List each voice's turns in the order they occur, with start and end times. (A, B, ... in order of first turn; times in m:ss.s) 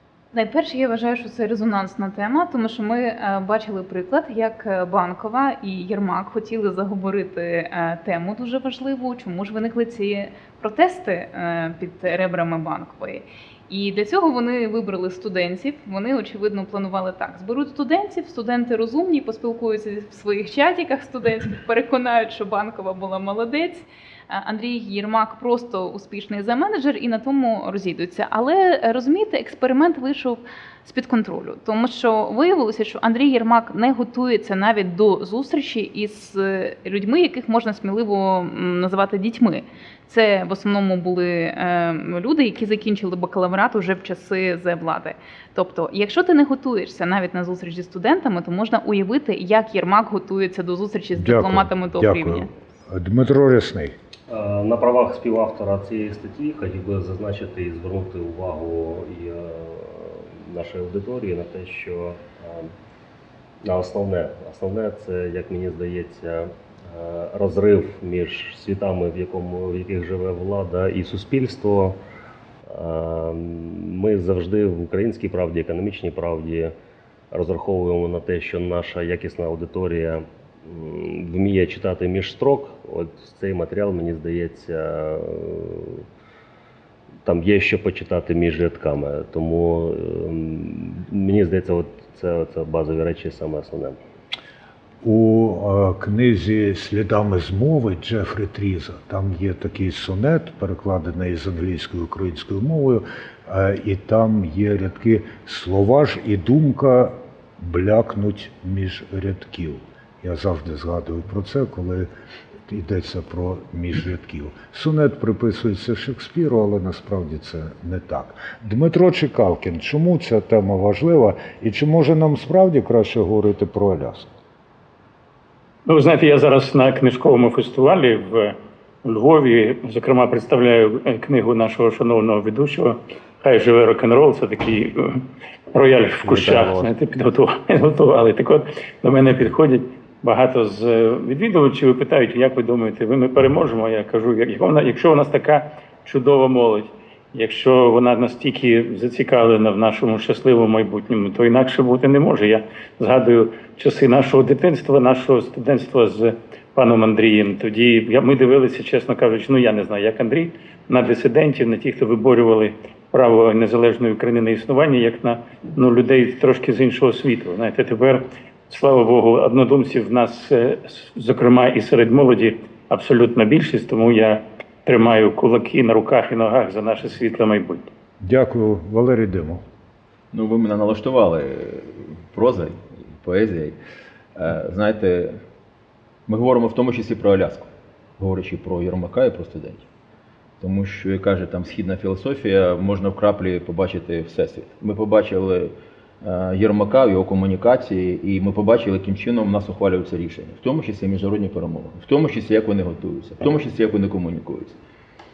0:00.3-0:52.5 A
0:51.1-0:53.9 B
0:54.3-1:02.7 C
1:03.6-1:12.0 C
1:12.7-1:16.7 C
1:17.3-1:26.0 C
1:27.2-1:34.0 C
1:35.0-1:52.1 B
1:52.7-2:04.3 B
2:05.8-2:15.2 D
2:15.7-2:57.9 D
2:16.2-2:16.9 C
2:58.2-2:59.6 B
3:00.3-3:03.8 E
3:04.4-3:05.3 E
3:06.3-3:09.8 E
3:10.6-3:24.8 E